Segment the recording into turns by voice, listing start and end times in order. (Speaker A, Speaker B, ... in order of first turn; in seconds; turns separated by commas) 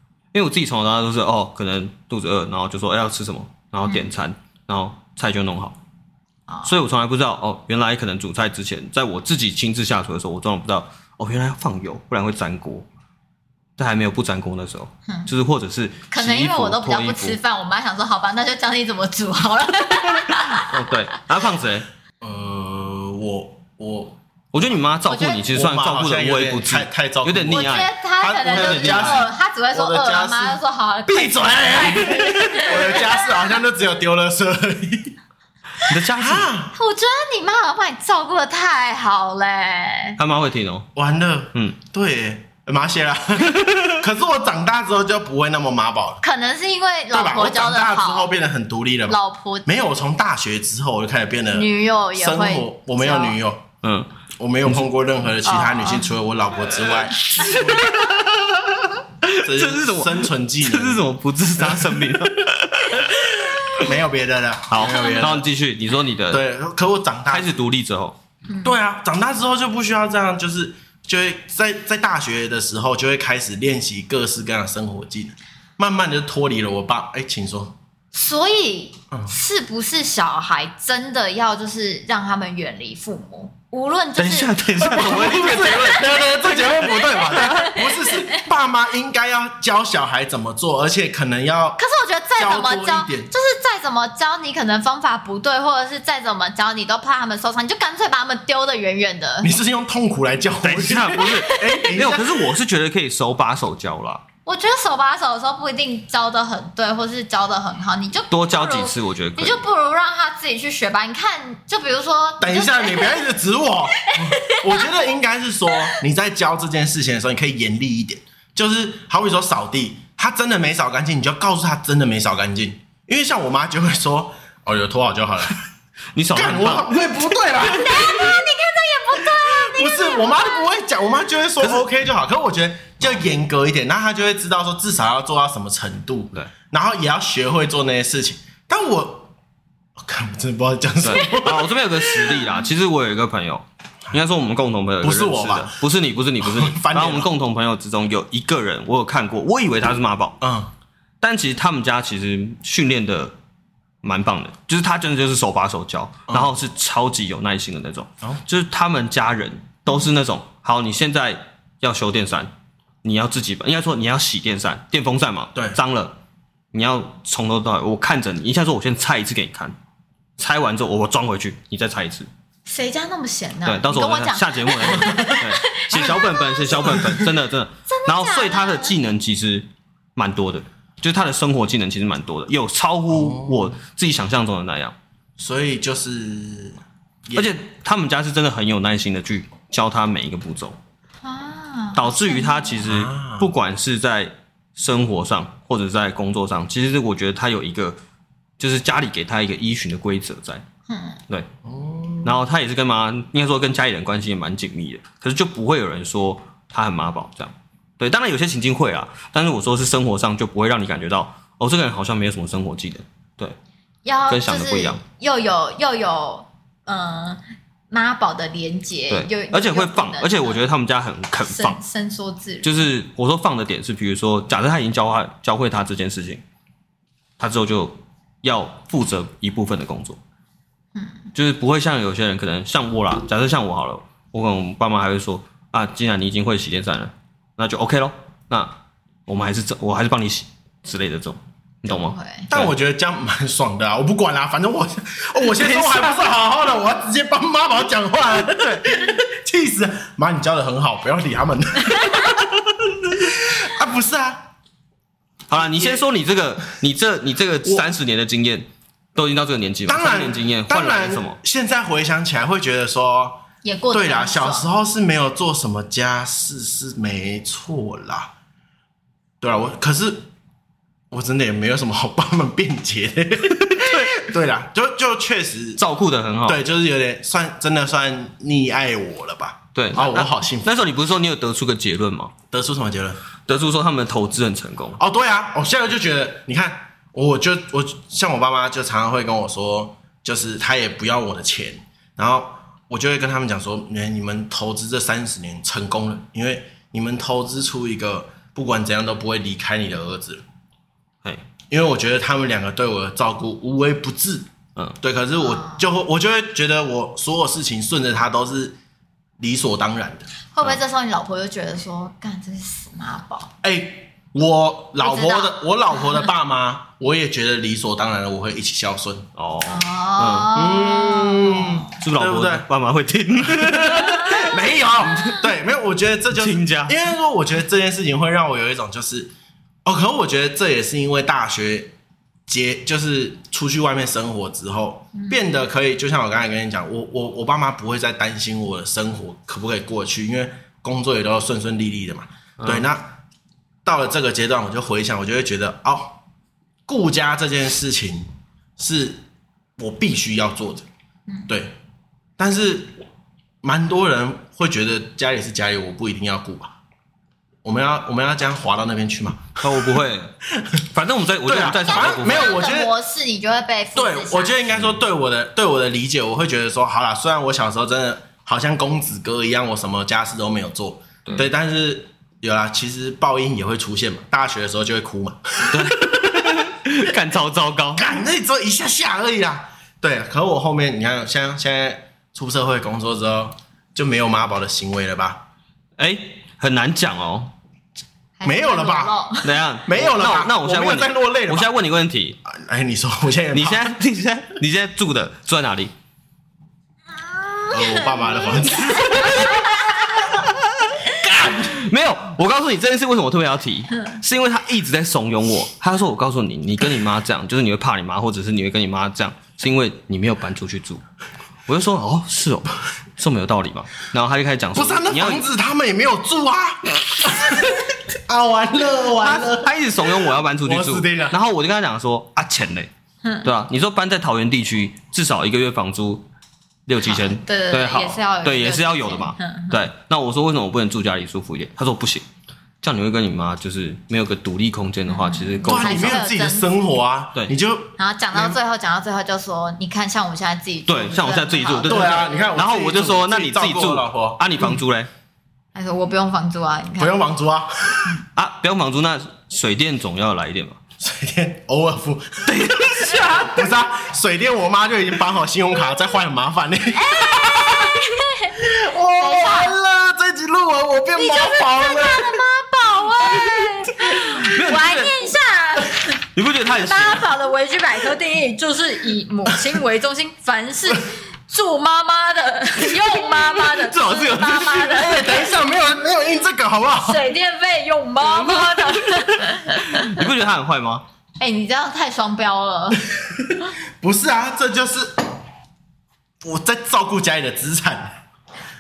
Speaker A: 0.3-5.8, Speaker B: 3.9-4.1, Speaker A: 6.6-12.9, Speaker A: 13.8-17.4, Speaker B: 16.1-20.8, Speaker A: 20.5-21.9, Speaker C: 22.2-24.2, Speaker A: 24.5-27.9, Speaker B: 25.1-25.4, Speaker C: 25.5-35.1, Speaker B: 27.5-33.3, Speaker A: 28.4-29.3, Speaker A: 35.8-36.5, Speaker C: 36.1-36.7, Speaker B: 36.7-40.2, Speaker A: 40.2-40.9, Speaker C: 41.0-46.2, Speaker A: 43.5-44.0, Speaker B: 46.2-48.3, Speaker C: 47.1-53.6, Speaker B: 49.1-49.7, Speaker B: 51.5-53.4, Speaker A: 53.8-54.1, Speaker C: 54.4-57.9, Speaker B: 55.4-56.1, Speaker A: 57.3-63.9, Speaker B: 57.4-58.1, Speaker C: 59.4-65.5, Speaker A: 64.7-66.4, Speaker B: 64.8-65.4, Speaker C: 66.3-67.5, Speaker A: 67.3-68.2, Speaker B: 68.5-68.8, Speaker C: 68.6-77.8, Speaker B: 78.1-88.4, Speaker A: 84.2-86.7, Speaker C: 84.8-91.8, Speaker B: 91.8-99.5, Speaker C: 92.4-93.3, Speaker C: 99.4-102.5, Speaker A: 100.6-104.2, Speaker B: 101.2-101.9, Speaker B: 104.5-113.2, Speaker A: 108.3-109.6, Speaker C: 112.4-125.6, Speaker B: 114.0-114.8, Speaker A: 126.2-126.9, Speaker C: 126.3-128.4, Speaker B: 127.7-130.7, Speaker C: 129.2-139.3, Speaker A: 131.6-131.9, Speaker C: 140.0-142.4, Speaker A: 141.0-150.4, Speaker B: 142.3-142.6, Speaker C: 145.0-145.8, Speaker C: 146.4-147.3, Speaker C: 150.4-150.7, Speaker A: 151.2-153.3, Speaker A: 154.0-162.5, Speaker C: 156.3-156.6, Speaker A: 163.0-166.2, Speaker A: 166.7-169.8, Speaker A: 170.4-172.3, Speaker B: 172.7-177.0, Speaker A: 173.7-184.9, Speaker C: 175.1-175.3, Speaker C: 176.8-177.3, Speaker B: 177.9-178.9, Speaker C: 183.1-183.7, Speaker C: 185.4-187.5, Speaker A: 187.4-190.8, Speaker B: 191.2-192.8, Speaker A: 191.9-198.0, Speaker C: 192.8-193.5, Speaker A: 198.6-200.6, Speaker B: 200.9-201.2, Speaker C: 201.7-202.4, Speaker A: 202.2-213.6, Speaker B: 214.1-220.6, Speaker A: 214.3-215.0, Speaker A: 219.1-221.8, Speaker B: 221.4-222.9, Speaker A: 222.6-226.4, Speaker A: 227.4-230.2, Speaker B: 230.9-231.3, Speaker A: 231.3-238.8, Speaker A: 239.3-242.7, Speaker B: 241.9-242.5, Speaker C: 242.5-254.5, Speaker A: 245.6-246.3, Speaker A: 248.4-248.9, Speaker A: 255.5-261.4, Speaker C: 255.8-256.0, Speaker C: 259.9-268.3, Speaker B: 263.6-264.7, Speaker C: 269.4-270.3, Speaker C: 271.1-275.8, Speaker A: 273.7-274.2, Speaker A: 275.8-276.6, Speaker C: 276.4-280.7, Speaker A: 279.8-282.3, Speaker C: 282.5-283.2, Speaker A: 283.5-285.0, Speaker C: 285.0-300.4, Speaker C: 301.7-304.5, Speaker C: 305.0-308.8, Speaker B: 305.4-305.8, Speaker C: 309.4-310.3, Speaker B: 310.5-313.5, Speaker C: 313.6-319.3, Speaker B: 315.0-316.2, Speaker A: 319.4-320.6, Speaker B: 319.6-321.9, Speaker C: 320.5-322.7, Speaker A: 321.9-325.4, Speaker C: 323.5-329.3, Speaker B: 323.9-325.4, Speaker A: 326.3-327.0, Speaker C: 329.9-331.9, Speaker C: 332.5-343.1, Speaker A: 342.6-342.9, Speaker C: 343.9-346.2, Speaker C: 346.9-349.2, Speaker C: 349.8-350.9, Speaker C: 351.5-351.8, Speaker C: 352.4-353.0, Speaker C: 353.6-356.7, Speaker C: 357.6-360.0, Speaker A: 359.6-360.3, Speaker A: 360.9-362.6, Speaker C: 361.4-362.9, Speaker B: 361.9-364.6, Speaker C: 364.0-376.7, Speaker A: 364.7-365.0, Speaker A: 375.7-378.1, Speaker C: 378.0-385.4, Speaker A: 386.0-387.5, Speaker B: 388.4-389.6, Speaker C: 388.4-389.1, Speaker A: 389.4-392.4, Speaker C: 389.9-391.7, Speaker C: 392.4-394.0, Speaker A: 393.5-395.9, Speaker B: 397.2-400.4, Speaker C: 397.7-399.6, Speaker A: 399.1-411.0, Speaker C: 401.1-401.9, Speaker A: 411.7-415.5, Speaker C: 414.7-421.4, Speaker A: 419.2-422.9, Speaker A: 423.4-426.3, Speaker A: 426.9-432.2, Speaker B: 427.0-429.8, Speaker A: 432.8-436.2, Speaker B: 435.1-436.8, Speaker C: 435.6-438.6, Speaker B: 438.0-442.4, Speaker A: 440.9-445.1, Speaker C: 441.8-444.4, Speaker B: 445.8-447.2, Speaker C: 447.0-448.2, Speaker A: 448.4-450.8, Speaker C: 451.0-458.0, Speaker A: 452.5-453.7, Speaker B: 456.9-458.6, Speaker C: 458.6-462.4, Speaker B: 459.2-459.8, Speaker B: 461.1-466.2, Speaker C: 463.2-464.4, Speaker A: 464.4-465.1, Speaker A: 466.4-467.2, Speaker B: 466.8-475.6, Speaker A: 473.1-475.2, Speaker C: 474.9-477.2, Speaker B: 477.0-480.3, Speaker A: 478.4-481.0, Speaker B: 481.4-483.0, Speaker C: 483.4-485.3, Speaker C: 486.4-488.2